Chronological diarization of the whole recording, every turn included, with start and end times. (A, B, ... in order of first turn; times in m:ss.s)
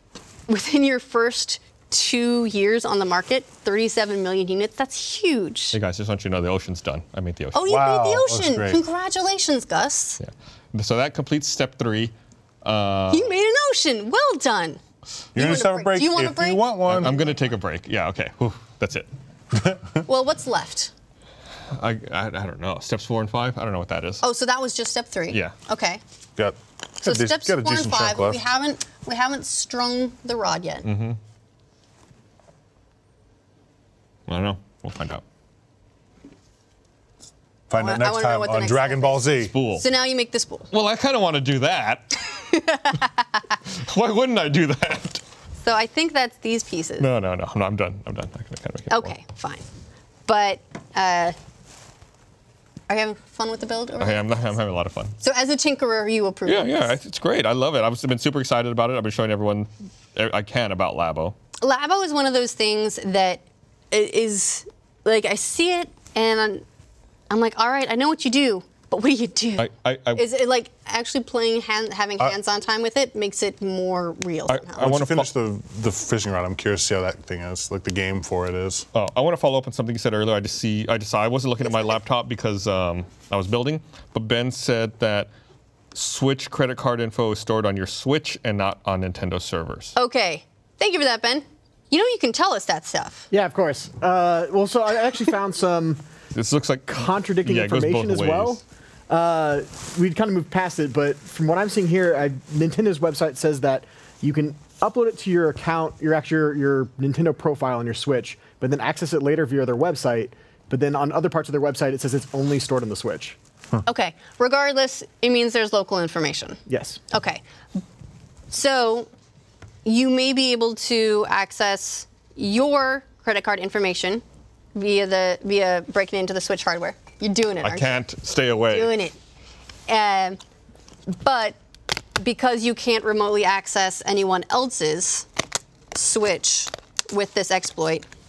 0:00.5-0:05.8 A
0:05.7-0:07.6 B
0:07.5-0:10.2 A
0:07.6-0:08.8 C
0:10.2-0:13.3 B
0:13.1-0:14.8 A
0:15.3-0:17.2 C
0:15.4-0:17.1 A
0:16.9-0:19.1 B
0:19.5-0:20.0 C
0:20.0-0:20.9 A
0:21.7-0:24.2 B
0:24.2-0:26.0 A
0:26.4-0:28.4 C
0:27.0-0:30.9 A
0:30.8-0:31.2 B
0:34.3-0:35.2 B
0:37.7-0:39.5 C
0:37.7-0:40.7 A
0:39.4-0:39.8 B
0:40.7-0:42.4 B
0:43.7-0:45.2 B
0:45.6-0:47.1 A
0:47.0-0:49.2 B
0:48.9-0:49.6 A
0:50.3-0:51.4 A
0:52.9-0:54.5 A
0:54.0-0:55.2 B
0:55.2-0:56.9 A
0:56.4-1:01.4 B
1:01.6-1:06.6 A
1:07.3-1:14.9 A
1:09.6-1:10.2 B
1:14.5-1:15.3 B
1:14.8-1:18.8 C
1:18.9-1:25.3 B
1:21.6-1:22.0 A
1:25.9-1:29.9 B
1:30.0-1:33.3 A
1:33.3-1:36.0 D
1:36.3-1:38.6 B
1:36.9-1:53.4 D
1:53.8-1:57.8 A
1:56.7-1:57.0 D
1:58.5-1:59.1 A
1:59.8-2:04.2 A
2:04.7-2:08.0 A
2:07.6-2:08.9 B
2:08.7-2:09.2 A
2:09.9-2:10.4 A
2:11.1-2:11.6 A
2:12.2-2:15.3 A
2:15.9-2:18.1 A